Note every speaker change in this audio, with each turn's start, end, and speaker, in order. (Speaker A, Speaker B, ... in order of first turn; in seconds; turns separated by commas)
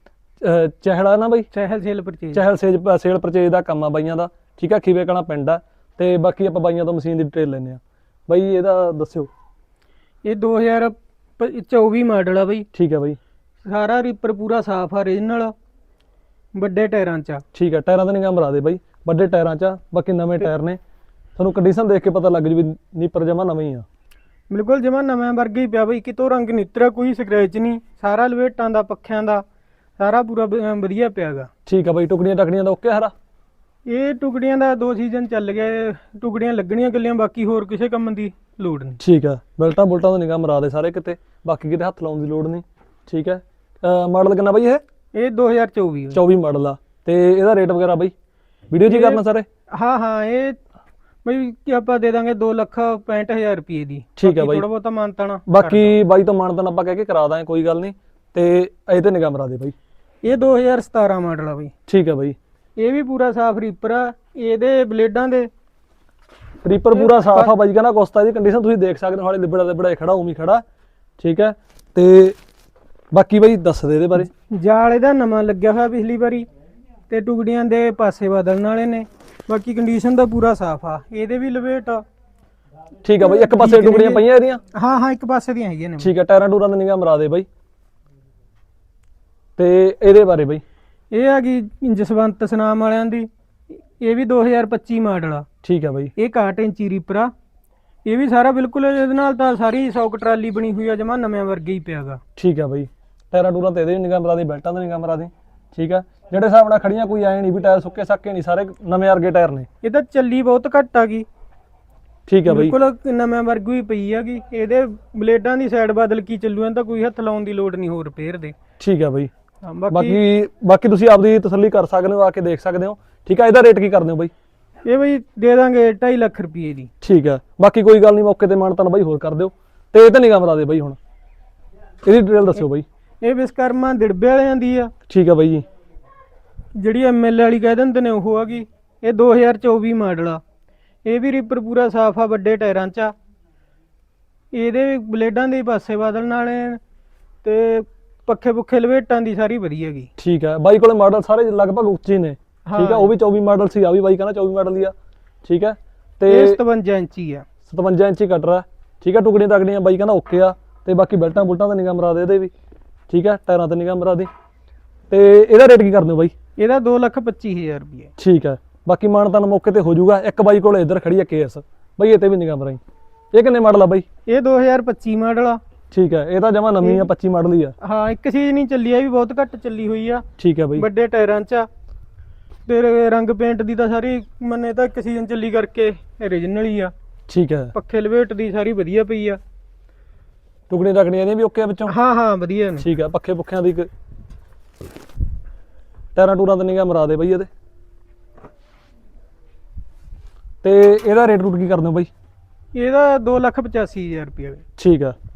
Speaker A: 0.4-1.5, Speaker B: 1.5-2.4, Speaker A: 2.3-9.3, Speaker B: 10.2-12.7, Speaker A: 12.7-13.2, Speaker B: 13.7-15.5, Speaker B: 16.6-17.4, Speaker A: 17.5-20.8, Speaker A: 21.4-23.9, Speaker B: 24.5-29.4, Speaker B: 30.0-31.5, Speaker A: 31.7-33.1, Speaker B: 33.9-39.0, Speaker A: 39.0-44.8, Speaker B: 45.1-46.2, Speaker A: 46.1-48.1, Speaker A: 48.7-49.5, Speaker B: 48.9-49.2, Speaker B: 49.7-50.6, Speaker B: 51.2-56.0, Speaker A: 54.2-54.6, Speaker A: 55.5-59.8, Speaker B: 60.2-61.7, Speaker A: 61.9-62.4, Speaker B: 62.8-65.5, Speaker A: 66.6-70.6, Speaker B: 66.9-67.5, Speaker A: 71.2-72.4, Speaker A: 73.1-74.3, Speaker B: 74.3-76.5, Speaker B: 77.1-82.0, Speaker A: 83.0-84.6, Speaker B: 83.2-84.2, Speaker B: 84.7-86.1, Speaker A: 86.0-87.5, Speaker A: 89.6-90.6, Speaker B: 91.1-93.3, Speaker B: 94.0-95.5, Speaker A: 95.6-96.1, Speaker B: 96.2-97.3, Speaker B: 98.1-102.2, Speaker A: 102.4-109.7, Speaker B: 109.8-111.3, Speaker A: 112.3-112.8, Speaker B: 112.5-118.6, Speaker A: 118.8-119.3, Speaker B: 119.6-120.2, Speaker A: 119.9-124.3, Speaker B: 124.9-126.9, Speaker A: 127.0-131.0, Speaker A: 132.0-132.8, Speaker B: 133.2-134.9, Speaker A: 135.1-135.7, Speaker B: 136.8-140.4, Speaker B: 141.1-143.1, Speaker B: 144.5-146.8, Speaker B: 147.4-150.1, Speaker A: 150.2-154.9, Speaker B: 152.7-153.1, Speaker A: 155.4-156.6, Speaker B: 156.3-157.4, Speaker A: 157.7-162.5, Speaker A: 163.1-164.3, Speaker A: 165.1-166.3, Speaker B: 166.6-168.1, Speaker A: 168.2-172.8, Speaker A: 173.3-174.1, Speaker B: 174.3-175.6, Speaker A: 175.9-177.7, Speaker B: 176.8-177.1, Speaker B: 177.8-180.2, Speaker A: 180.4-180.8, Speaker B: 180.8-181.7, Speaker B: 182.7-186.9, Speaker A: 187.3-187.7, Speaker B: 187.7-189.4, Speaker A: 190.7-191.9, Speaker B: 191.9-192.8, Speaker A: 192.8-193.9, Speaker A: 196.2-197.5, Speaker A: 200.6-202.1, Speaker B: 202.8-204.6, Speaker A: 204.8-205.2